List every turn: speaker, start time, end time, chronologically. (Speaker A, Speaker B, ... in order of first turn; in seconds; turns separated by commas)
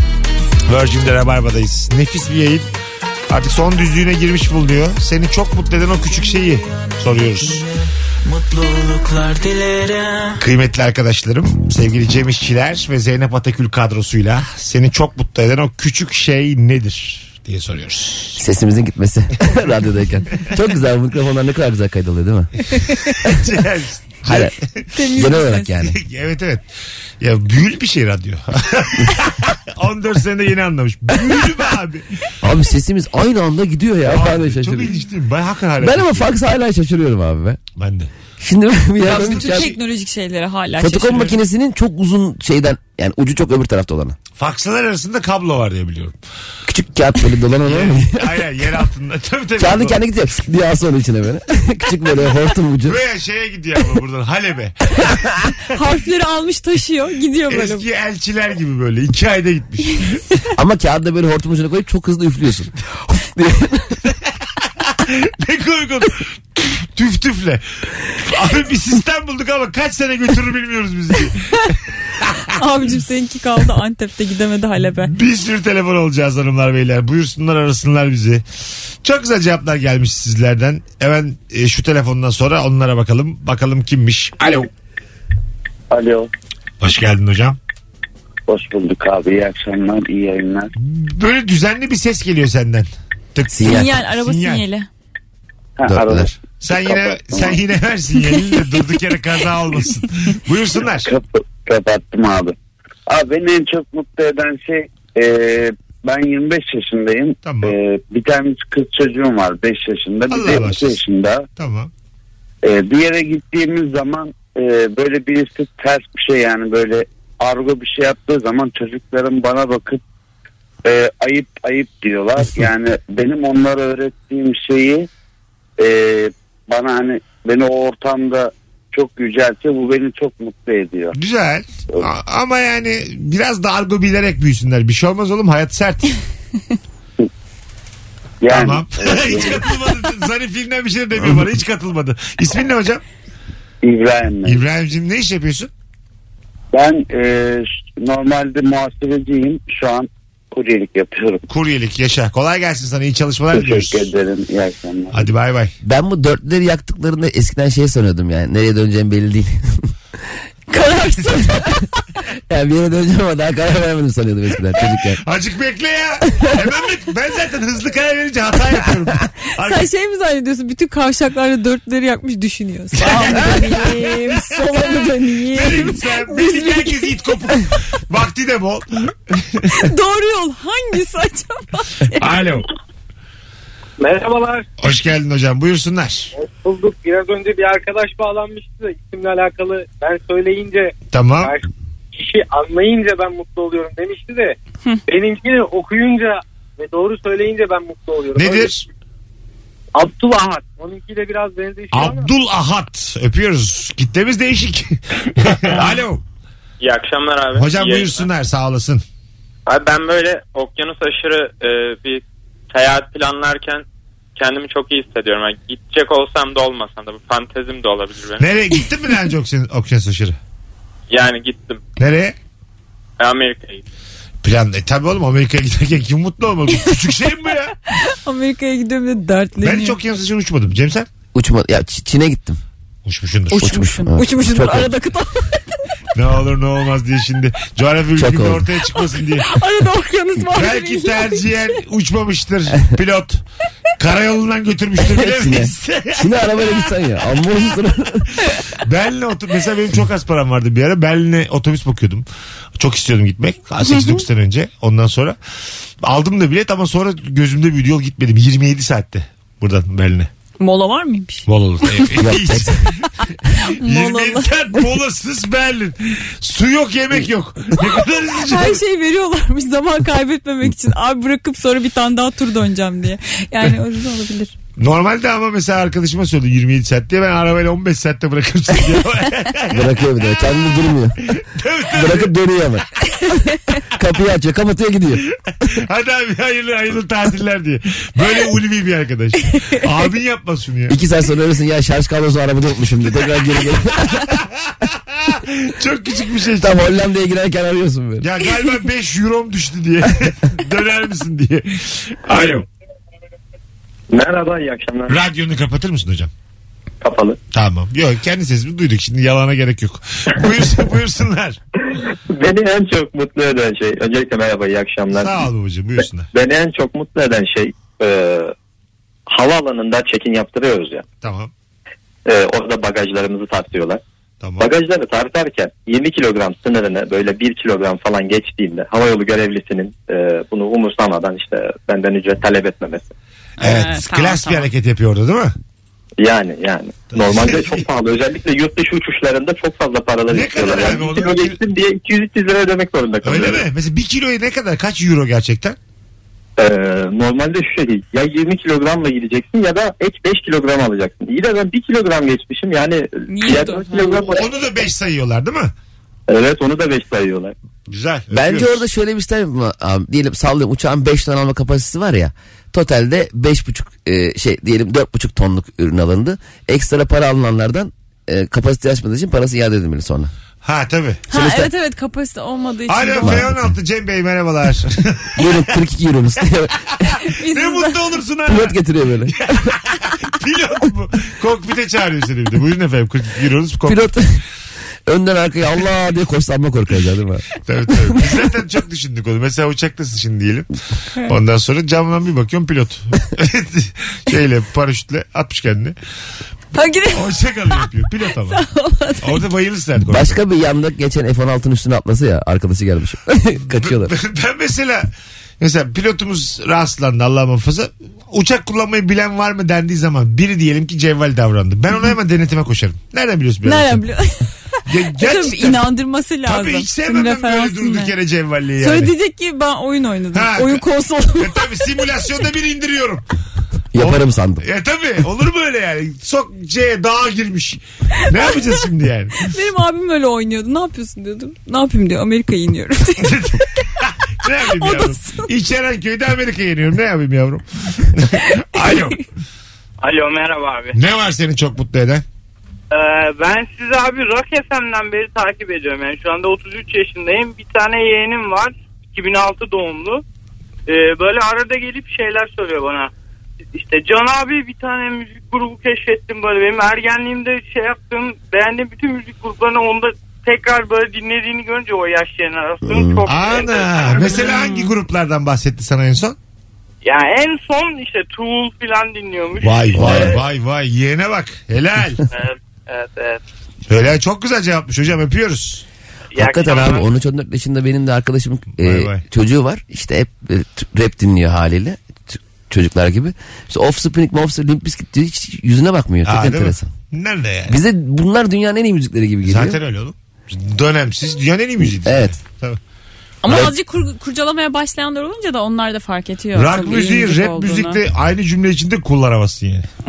Speaker A: 0.7-2.7, Speaker A: 3.3-7.6, Speaker B: 6.1-10.4, Speaker A: 10.4-18.4, Speaker C: 18.4-22.5, Speaker A: 23.2-24.6, Speaker C: 24.2-24.5, Speaker D: 24.9-25.7, Speaker C: 25.1-26.0, Speaker A: 25.8-26.6, Speaker A: 27.2-32.0, Speaker C: 32.4-34.9, Speaker A: 34.0-36.3, Speaker C: 35.8-37.6, Speaker A: 37.8-38.1, Speaker C: 38.4-39.8, Speaker D: 39.0-41.4, Speaker A: 39.0-39.6, Speaker C: 40.8-44.1, Speaker A: 44.4-46.2, Speaker C: 46.7-48.4, Speaker A: 47.6-50.0, Speaker C: 49.6-53.0, Speaker A: 52.8-55.1, Speaker D: 55.7-57.8, Speaker A: 57.5-60.2, Speaker C: 60.5-63.9, Speaker A: 65.0-72.4, Speaker D: 72.5-75.1, Speaker A: 75.0-78.4, Speaker A: 79.0-84.7, Speaker E: 85.9-86.3, Speaker A: 86.8-87.6, Speaker E: 88.5-90.7, Speaker A: 90.8-94.6, Speaker C: 93.5-93.9, Speaker D: 93.7-94.9, Speaker E: 95.8-97.6, Speaker C: 95.9-96.3, Speaker A: 96.1-101.1, Speaker E: 101.0-102.5, Speaker E: 103.1-111.4, Speaker A: 107.4-107.7, Speaker A: 110.3-111.0, Speaker A: 111.6-111.9, Speaker E: 112.6-120.0, Speaker E: 120.8-125.1, Speaker E: 125.8-131.1, Speaker A: 131.1-136.2, Speaker E: 138.4-139.6, Speaker A: 138.5-143.0, Speaker E: 143.8-144.6, Speaker A: 144.4-145.7, Speaker E: 146.7-151.4, Speaker A: 151.5-154.1, Speaker E: 153.5-155.2, Speaker A: 155.1-155.7, Speaker C: 155.8-159.8, Speaker D: 160.7-161.7, Speaker C: 162.5-165.2, Speaker A: 165.2-169.9, Speaker D: 169.6-177.1, Speaker A: 173.0-174.6, Speaker C: 173.1-173.5, Speaker A: 175.5-179.7, Speaker D: 179.7-182.2, Speaker A: 182.2-182.7, Speaker F: 184.1-184.4, Speaker A: 184.8-186.3, Speaker F: 186.4-190.9, Speaker A: 191.1-191.5, Speaker F: 192.2-194.5, Speaker F: 195.1-198.7, Speaker A: 198.3-198.8, Speaker F: 200.0-202.2, Speaker A: 201.9-206.2, Speaker G: 206.8-208.3, Speaker A: 207.5-209.0, Speaker G: 209.7-213.8, Speaker G: 214.3-218.4, Speaker A: 218.4-220.3, Speaker G: 221.1-221.8, Speaker A: 222.0-222.3, Speaker G: 223.2-223.8, Speaker A: 224.4-227.7, Speaker D: 227.9-229.9, Speaker A: 229.6-231.1, Speaker C: 231.3-232.6, Speaker A: 233.0-233.7, Speaker D: 233.5-235.6, Speaker C: 233.6-234.9, Speaker A: 236.1-239.5, Speaker C: 238.2-238.7, Speaker D: 238.9-241.6, Speaker A: 240.5-243.4, Speaker A: 244.0-247.5, Speaker C: 245.0-248.3, Speaker A: 248.8-252.2, Speaker A: 252.8-255.4, Speaker D: 253.8-254.2, Speaker A: 256.0-260.3, Speaker D: 260.6-261.5, Speaker A: 261.5-262.9, Speaker C: 262.1-262.8, Speaker D: 263.6-264.5, Speaker A: 263.8-268.8, Speaker D: 268.5-274.5, Speaker A: 274.8-282.3, Speaker C: 279.7-281.1, Speaker C: 281.9-282.8, Speaker C: 283.9-285.2, Speaker A: 285.6-290.9, Speaker C: 290.9-294.2, Speaker A: 294.3-296.9, Speaker C: 296.6-298.3, Speaker A: 298.2-302.6, Speaker H: 304.1-305.1, Speaker A: 305.1-306.3, Speaker H: 307.0-307.4, Speaker A: 307.5-311.6, Speaker H: 312.3-315.4, Speaker A: 315.1-316.3, Speaker H: 316.3-318.5, Speaker H: 319.3-321.0, Speaker A: 321.2-321.5, Speaker H: 322.2-324.0, Speaker A: 324.4-324.7, Speaker H: 324.6-333.1, Speaker D: 333.6-334.7, Speaker A: 333.6-335.5, Speaker H: 336.2-343.6, Speaker A: 337.1-337.8, Speaker A: 340.3-341.6, Speaker A: 343.2-345.8, Speaker H: 346.6-354.4, Speaker D: 353.3-354.4, Speaker A: 354.3-355.7, Speaker H: 356.3-357.5, Speaker A: 357.9-358.8, Speaker C: 358.3-370.3, Speaker A: 370.6-371.2, Speaker D: 371.3-373.5, Speaker C: 371.3-371.7, Speaker A: 372.9-375.4, Speaker C: 373.2-373.7, Speaker C: 375.4-376.7, Speaker D: 377.1-377.9, Speaker A: 377.5-378.8, Speaker C: 378.5-379.5, Speaker A: 379.5-384.1, Speaker C: 383.9-384.4, Speaker C: 385.1-387.4, Speaker A: 387.6-390.7, Speaker A: 391.2-395.9, Speaker D: 396.7-397.8, Speaker A: 397.1-398.6, Speaker D: 398.4-399.4, Speaker A: 399.2-400.4, Speaker C: 400.0-404.1, Speaker A: 403.7-414.0, Speaker D: 413.6-414.4, Speaker A: 414.9-415.9, Speaker D: 415.1-418.1, Speaker A: 416.4-419.1, Speaker D: 418.8-421.6, Speaker A: 420.3-420.8, Speaker A: 421.4-423.2, Speaker C: 423.9-424.6, Speaker A: 424.0-429.5, Speaker D: 429.4-433.4, Speaker A: 433.2-439.2, Speaker D: 434.7-435.5, Speaker I: 440.0-440.9, Speaker A: 440.9-442.2, Speaker I: 442.9-450.2, Speaker I: 450.9-453.1, Speaker I: 453.7-464.7, Speaker C: 462.8-463.2, Speaker A: 463.3-466.4, Speaker I: 467.0-470.3, Speaker A: 469.6-472.2, Speaker C: 469.9-470.4, Speaker I: 472.3-473.4, Speaker A: 473.9-475.8, Speaker I: 476.3-477.1, Speaker C: 476.4-486.9, Speaker A: 478.8-479.2, Speaker A: 486.2-487.8, Speaker C: 487.7-489.8, Speaker A: 489.4-492.8, Speaker C: 492.0-492.3, Speaker D: 493.4-498.0, Speaker A: 496.5-499.9